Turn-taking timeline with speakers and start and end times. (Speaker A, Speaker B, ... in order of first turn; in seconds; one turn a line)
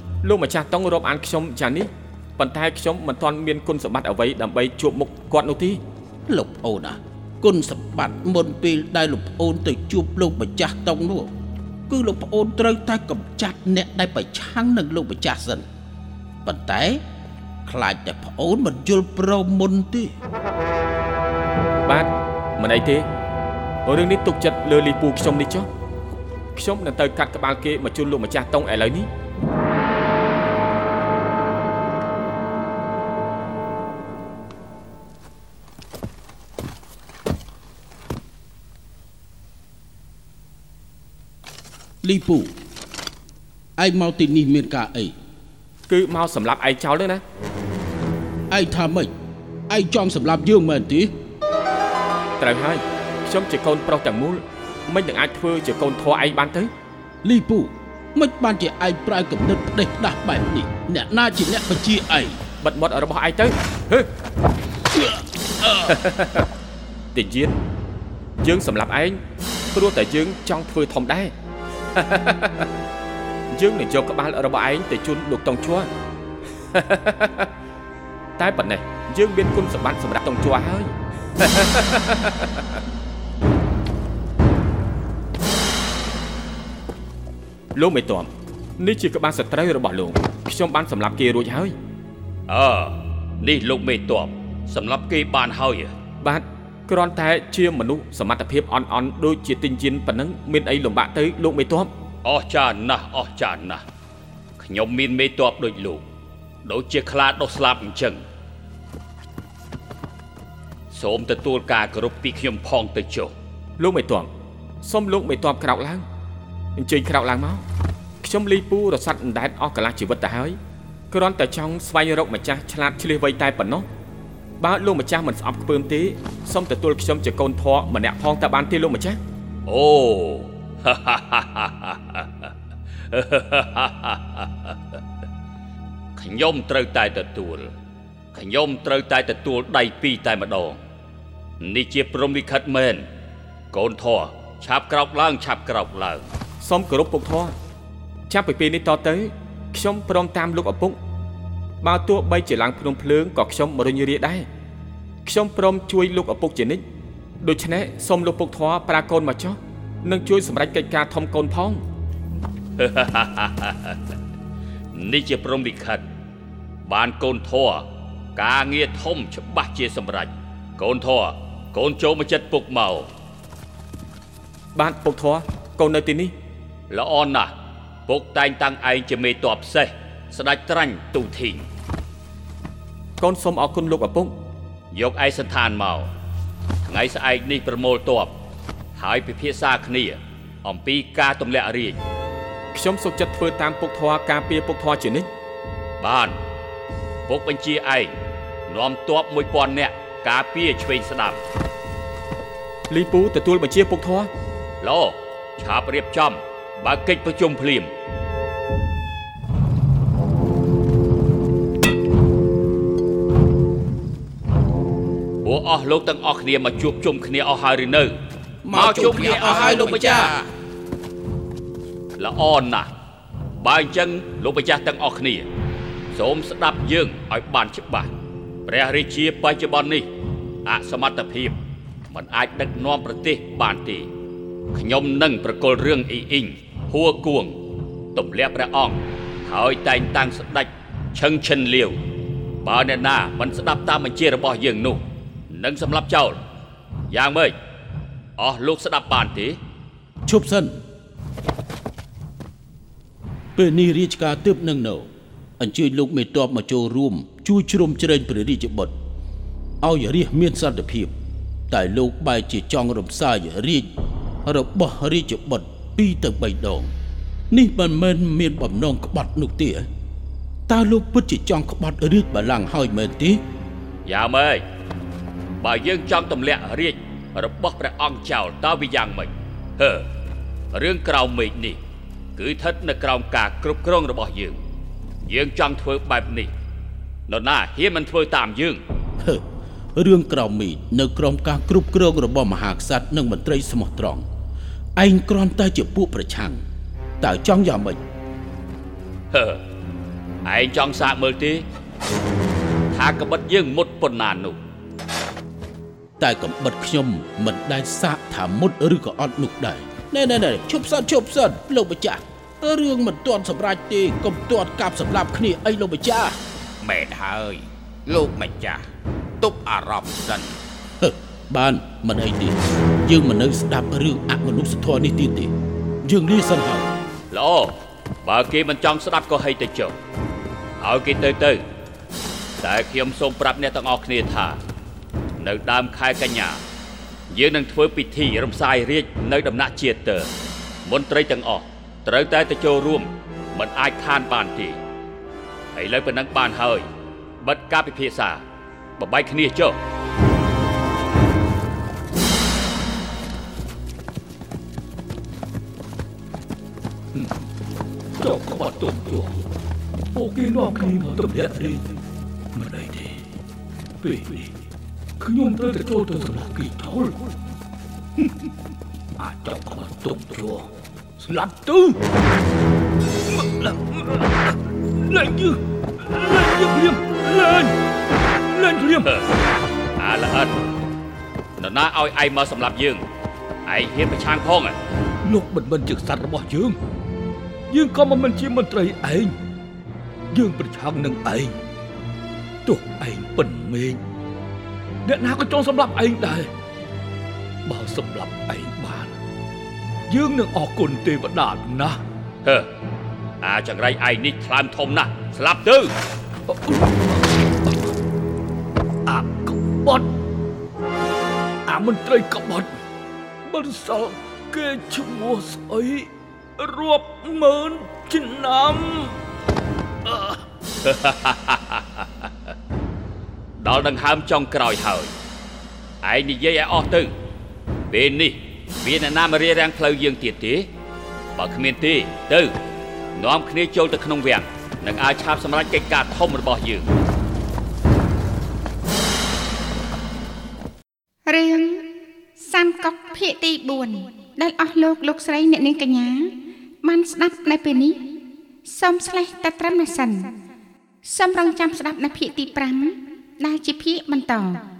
Speaker A: 0.2-5.8
Speaker B: 6.3-11.3
Speaker B: 11.9-15.7
Speaker B: 16.4-17.0
Speaker B: 17.6-20.1
Speaker A: 21.9-23.1
Speaker A: 23.9-25.7
Speaker A: 26.5-29.1
Speaker B: 42.0-42.5
Speaker B: 43.8-45.1
Speaker A: 45.9-47.2
Speaker B: 48.5-49.1
Speaker B: 49.7-51.1
Speaker A: 52.4-56.7
Speaker B: 57.2-62.4
Speaker A: 62.6-64.1
Speaker A: 65.6-66.5
Speaker A: 67.1-67.5
Speaker A: 68.4-69.2
Speaker A: 69.7-71.3
Speaker A: 71.9-72.7
Speaker A: 73.5-75.9
Speaker A: 76.7-77.5
Speaker A: 78.4-82.8
Speaker A: 87.7-91.8
Speaker C: 92.5-95.9
Speaker A: 96.2-101.9
Speaker C: 102.2-103.8
Speaker C: 104.6-106.0
Speaker C: 106.6-108.2
Speaker C: 110.9-113.3
Speaker A: 113.8-114.3
Speaker A: 114.8-116.0
Speaker A: 116.8-117.6
Speaker A: 118.2-120.6
Speaker A: 121.1-123.9
Speaker A: 124.6-129.2
Speaker C: 129.7-132.5
Speaker C: 133.1-134.9
Speaker C: 136.2-137.7
Speaker C: 138.3-140.8
Speaker C: 141.6-143.1
Speaker C: 143.7-146.2
Speaker A: 146.6-147.5
Speaker A: 148.3-151.0
Speaker A: 151.8-154.5
Speaker A: 155.2-156.8
Speaker A: 157.4-161.8
Speaker C: 162.8-164.0
Speaker C: 164.9-166.0
Speaker C: 166.9-173.1
Speaker A: 174.7-176.3
Speaker C: 176.9-177.5
Speaker C: 178.1-181.7
Speaker A: 183.2-184.3
Speaker C: 184.9-186.1
Speaker C: 186.8-188.3
Speaker C: 188.9-192.0
Speaker A: 192.7-195.3
Speaker C: 196.0-196.4
Speaker C: 197.3-198.1
Speaker C: 198.7-201.4
Speaker A: 202.9-204.3
Speaker C: 204.8-207.9
Speaker C: 215.4-218.2
Speaker B: 218.6-220.3
Speaker C: 218.7-220.3
Speaker D: 218.7-220.5
Speaker C: 222.2-222.9
Speaker C: 223.6-225.5
Speaker C: 226.1-228.1
Speaker C: 228.7-230.1
Speaker C: 230.6-231.6
Speaker C: 232.1-234.1
Speaker C: 234.7-237.6
Speaker C: 238.1-241.9
Speaker C: 242.6-246.4
Speaker C: 247.1-247.5
Speaker C: 248.4-249.6
Speaker B: 250.2-250.8
Speaker B: 253.6-258.9
Speaker B: 259.8-261.1
Speaker B: 261.7-263.9
Speaker B: 264.5-266.9
Speaker B: 267.5-269.9
Speaker B: 270.7-273.4
Speaker C: 274.1-274.6
Speaker C: 275.6-280.1
Speaker C: 280.7-281.8
Speaker C: 282.4-284.6
Speaker C: 285.3-286.5
Speaker C: 287.3-288.8
Speaker B: 289.9-294.2
Speaker B: 295.0-296.6
Speaker B: 297.2-298.0
Speaker C: 299.3-299.6
Speaker C: 300.4-301.6
Speaker C: 302.9-304.6
Speaker B: 306.2-316.4
Speaker D: 316.8-318.8
Speaker D: 319.4-320.6
Speaker B: 321.0-325.5
Speaker B: 326.0-326.9
Speaker C: 327.3-329.9
Speaker C: 330.8-331.6
Speaker C: 332.6-334.6
Speaker C: 335.4-336.6
Speaker C: 337.3-340.3
Speaker C: 340.9-344.8
Speaker C: 345.7-346.9
Speaker C: 347.4-348.4
Speaker C: 349.0-349.8
Speaker E: 358.2-359.4
Speaker E: 360.1-362.0
Speaker E: 362.5-363.2
Speaker E: 364.0-364.5
Speaker E: 365.2-367.2
Speaker E: 369.2-372.0
Speaker E: 373.3-377.7
Speaker E: 378.5-379.1
Speaker C: 380.0-380.6
Speaker C: 381.6-383.0
Speaker C: 383.6-384.8
Speaker E: 385.2-386.8
Speaker E: 387.7-389.4
Speaker E: 390.3-391.5
Speaker E: 392.6-394.0
Speaker E: 395.0-396.5
Speaker E: 397.6-399.1
Speaker E: 400.1-402.0
Speaker C: 403.4-405.9
Speaker E: 406.5-407.9
Speaker E: 409.1-410.1
Speaker E: 411.7-412.7
Speaker E: 413.4-419.2
Speaker E: 420.0-420.4
Speaker C: 420.8-422.3
Speaker C: 423.6-425.1
Speaker C: 426.0-427.1
Speaker C: 427.9-430.7
Speaker C: 431.3-432.5
Speaker C: 433.1-436.9
Speaker F: 441.3-446.3
Speaker F: 446.8-448.0
Speaker F: 448.6-450.3
Speaker F: 451.0-454.6